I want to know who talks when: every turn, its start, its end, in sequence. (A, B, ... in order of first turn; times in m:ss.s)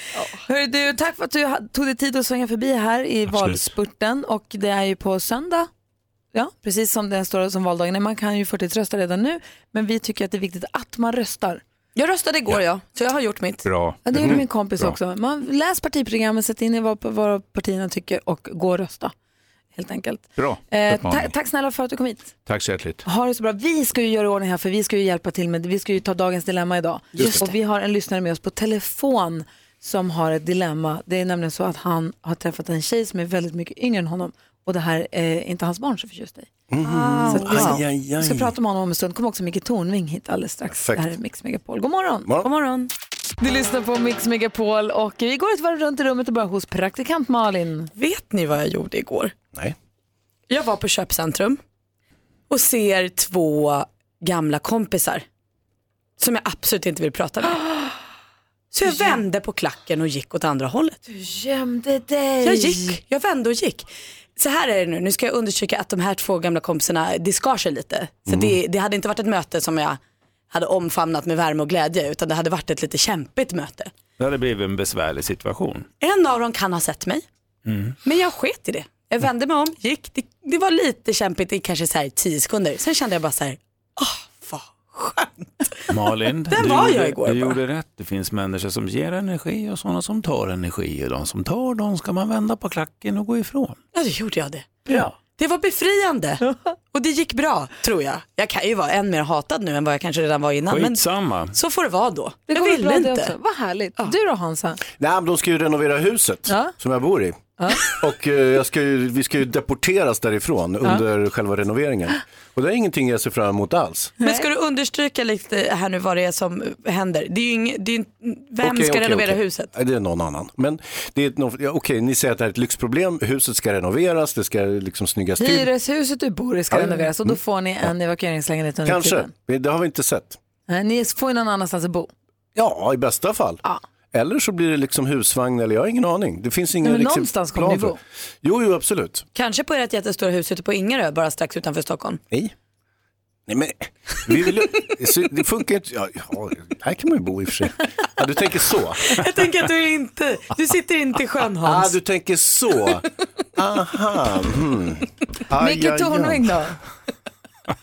0:00.3-0:05.7 A
0:03.3-0:03.6 B
0:06.3-0:11.6 A
0:11.9-0:13.7 C
0:13.6-0:14.9 B
0:14.0-0:19.1 A
0:19.7-0:22.3 A
0:20.4-0:21.3 B
0:22.4-0:23.0 B
0:23.0-0:36.5 A
0:36.7-0:38.5 D
0:36.8-0:37.8 C
0:37.3-0:42.3 A
0:40.8-0:41.1 D
0:42.4-0:42.9 C
0:43.4-0:47.9 A
0:48.0-0:49.3 C
0:50.5-0:51.6 C
0:52.5-0:55.2 C
0:56.2-0:57.7 C
0:58.7-1:01.0 C
0:58.8-0:59.2 A
1:01.1-1:03.0 A
1:02.4-1:10.0 C
1:08.3-1:08.6 D
1:10.5-1:13.9 C
1:14.2-1:15.8 E
1:16.0-1:17.2 C
1:17.6-1:18.0 E
1:18.0-1:25.9 C
1:25.9-1:33.8 E
1:26.5-1:27.6 C
1:33.9-1:36.4 C
1:36.9-1:43.3 C
1:40.6-1:41.6 E
1:42.5-1:44.8 A
1:45.0-1:54.1 D
1:46.5-1:46.7 A
1:47.6-1:47.9 A
1:54.2-1:59.7 C
1:58.6-2:05.7 D
2:05.4-2:09.3 A
2:06.7-2:07.4 D
2:08.8-2:10.4 D
2:10.7-2:12.1 A
2:12.6-2:13.6 D
2:14.1-2:19.2 D
2:16.8-2:18.0 A
2:19.3-2:22.2 C
2:23.5-2:29.2 D
2:29.1-2:31.9 C
2:31.6-2:33.0 D
2:33.6-2:36.5 D
2:35.6-2:36.8 A